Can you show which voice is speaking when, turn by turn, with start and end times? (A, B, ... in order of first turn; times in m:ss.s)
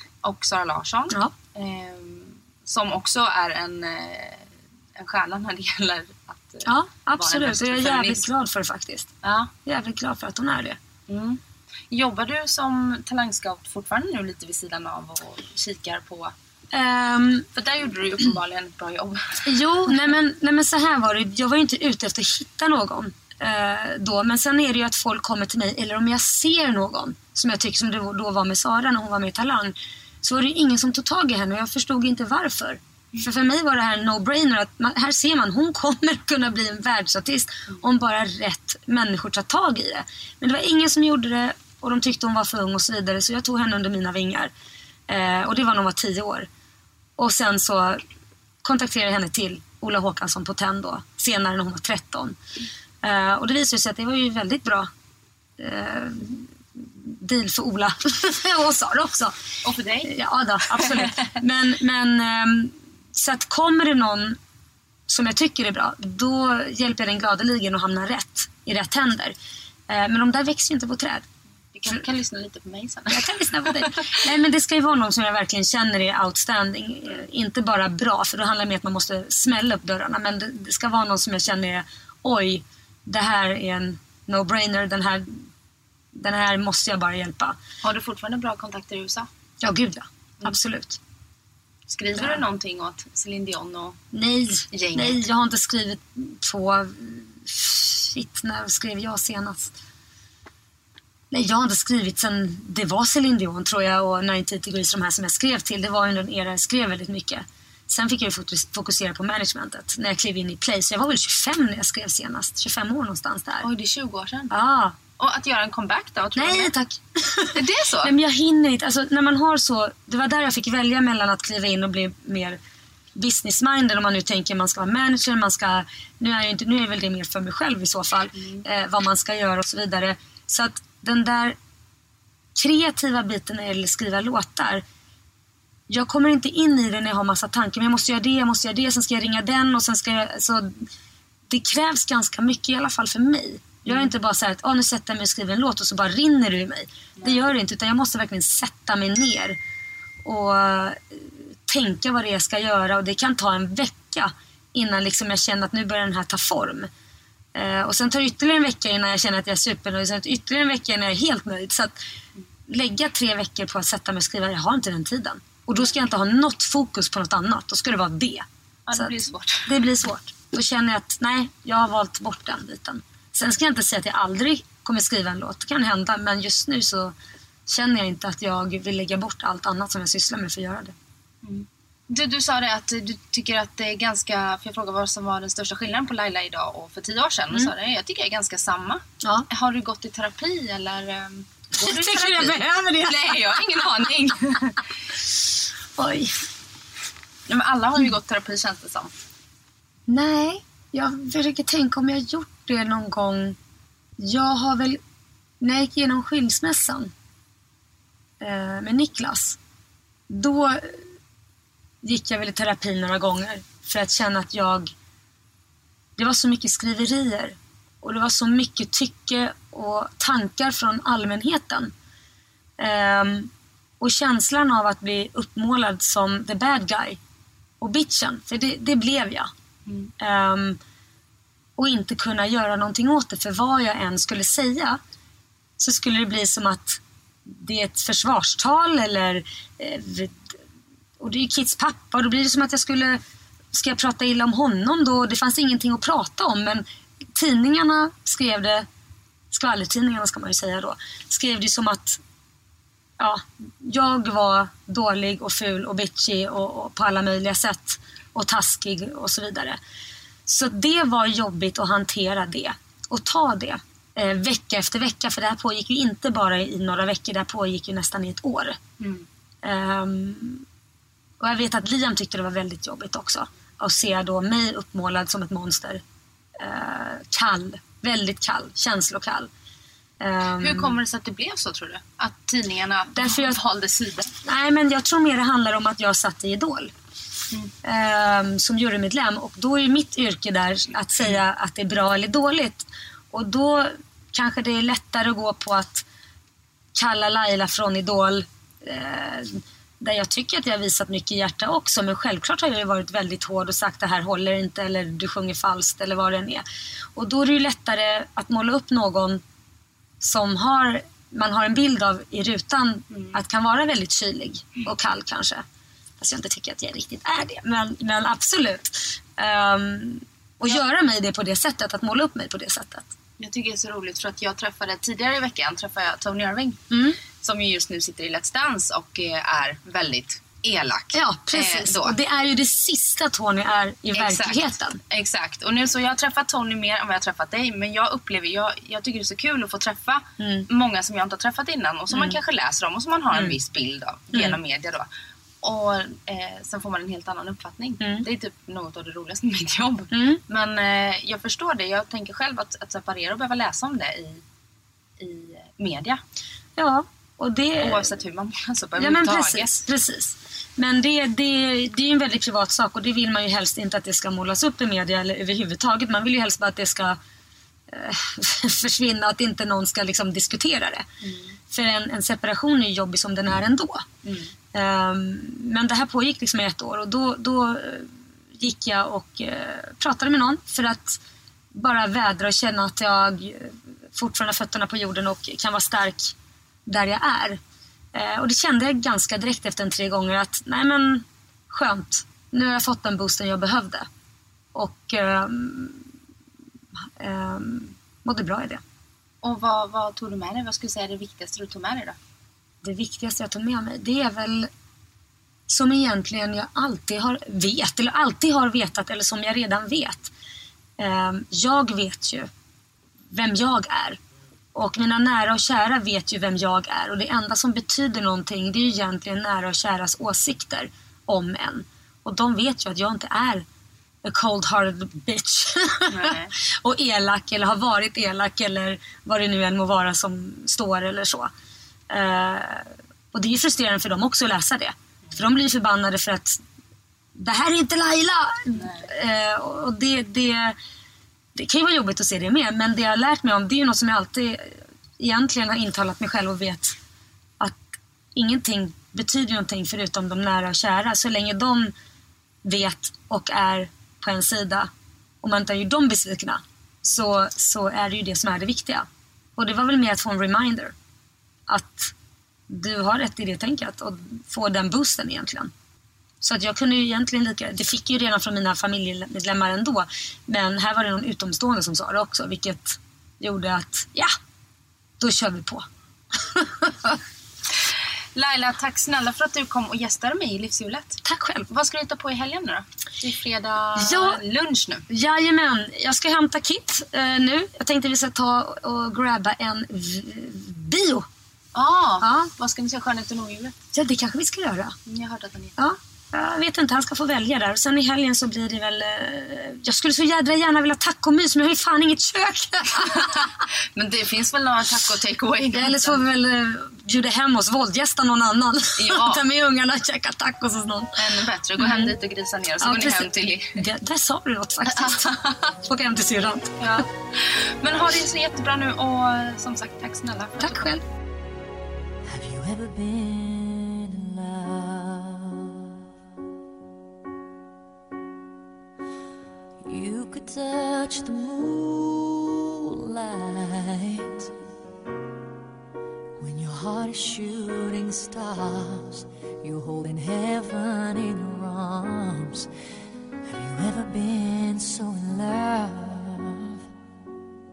0:00.2-0:08.3 A
0:06.6-0:09.1 B
0:09.2-0:09.5 A
0:09.6-0:10.8 B
0:11.1-0:11.4 A
0:11.9-0:16.3 A
0:16.7-0:17.5 B
0:17.5-0:19.6 A
0:19.4-0:44.5 B
0:45.1-0:46.5 B
0:47.2-0:48.0 B
0:48.6-0:52.4 B
0:53.0-0:54.9 B
0:55.6-0:59.3 B
0:59.6-1:00.1 A
1:00.0-1:04.4 B
1:00.7-1:01.3 A
1:05.1-1:09.3 B
1:09.9-1:11.3 B
1:11.7-1:14.3 A
1:13.1-1:25.4 B
1:26.1-1:27.6 B
1:27.8-1:29.3 A
1:29.6-1:31.0 B
1:31.9-1:34.0 A
1:32.2-1:32.4 B
1:34.1-1:39.8 B
1:34.7-1:35.2 A
1:41.3-1:53.7 B
1:53.6-1:54.5 A
1:54.5-1:55.0 B
1:55.2-1:56.7 A
1:56.4-2:02.6 B
1:57.5-1:58.1 A
2:03.1-2:11.6 B
2:08.4-2:08.6 A
2:12.6-2:14.8 B
2:15.9-2:20.8 B
2:21.5-2:29.6 B
2:23.9-2:24.1 A
2:30.2-2:36.9 B
2:37.5-2:41.9 B
2:42.7-2:57.1 B
2:48.9-2:49.7 A
2:57.7-3:00.9 B
3:01.4-3:14.8 A
3:09.2-3:09.5 B
3:11.8-3:13.6 B
3:16.0-3:16.4 B
3:17.5-3:19.2 A
3:20.1-3:23.6 B
3:24.2-3:25.0 B
3:25.6-3:27.1 B
3:28.4-3:29.6 B
3:30.3-3:31.1 B
3:32.0-3:34.9 B
3:36.2-3:41.9 B
3:42.8-3:47.2 B
3:47.8-3:49.5 B
3:49.8-3:50.1 A
3:50.2-3:50.8 B
3:51.8-3:55.0 B
3:55.8-4:00.6 B
4:01.2-4:03.2 B
4:03.7-4:08.9 B
4:09.5-4:12.2 B
4:13.2-4:19.8 B
4:20.5-4:28.8 B
4:29.0-4:29.2 A
4:29.6-4:30.6 B
4:31.4-4:36.0 B
4:36.6-4:39.5 B
4:40.2-4:41.0 B
4:40.6-4:44.3 A
4:43.1-4:43.6 B
4:44.4-4:46.9 B
4:47.8-4:56.0 B
4:56.9-5:06.6 B
5:07.1-5:09.4 B
5:10.2-5:15.6 B
5:16.2-5:23.1 B
5:23.4-5:26.8 A
5:26.9-5:27.2 B
5:27.4-5:32.2 A
5:31.1-5:35.0 B
5:34.1-5:45.1 A
5:40.4-5:40.7 B
5:42.1-5:42.4 B
5:45.6-5:54.4 A
5:48.0-5:48.2 B
5:50.1-5:50.4 B
5:55.2-5:56.2 A
5:56.8-5:58.1 B
5:57.8-5:59.8 A
5:59.0-6:07.2 B
6:07.9-6:11.0 B
6:11.2-6:11.5 A
6:11.7-6:14.0 B
6:14.2-6:14.5 A
6:14.7-6:21.2 B
6:21.7-6:26.3 B
6:26.8-6:27.6 B
6:28.1-6:34.1 B
6:34.7-6:36.0 B
6:37.2-6:38.8 B
6:39.4-6:42.2 A
6:42.8-6:44.7 B
6:45.7-6:50.3 B
6:51.0-6:52.5 B
6:53.3-6:54.2 B
6:54.7-7:03.6 B
7:04.2-7:11.5 B
7:06.1-7:06.5 A
7:12.1-7:16.6 B
7:17.4-7:20.8 B
7:18.7-7:19.1 A
7:21.5-7:27.0 B
7:27.6-7:31.9 B
7:32.6-7:34.9 B
7:35.4-7:40.9 B
7:41.7-7:42.1 B
7:42.7-7:45.7 B
7:46.4-7:54.3 B
7:55.2-7:55.8 B
7:56.4-7:57.2 B
7:58.3-8:05.0 A
8:01.2-8:01.7 B
8:04.0-8:04.4 B
8:05.1-8:11.3 B
8:11.7-8:13.8 A
8:12.2-8:12.5 B
8:13.9-8:15.0 B
8:15.0-8:16.0 A
8:15.8-8:23.5 B
8:23.1-8:26.2 A
8:25.7-8:32.1 B
8:29.0-8:29.4 A
8:31.2-8:33.8 A
8:32.8-8:36.8 B
8:34.8-8:35.7 A
8:36.8-8:41.0 A
8:40.6-8:41.0 B
8:42.2-8:45.9 C
8:49.8-8:54.5 C
8:56.4-9:02.7 C
9:03.4-9:06.8 C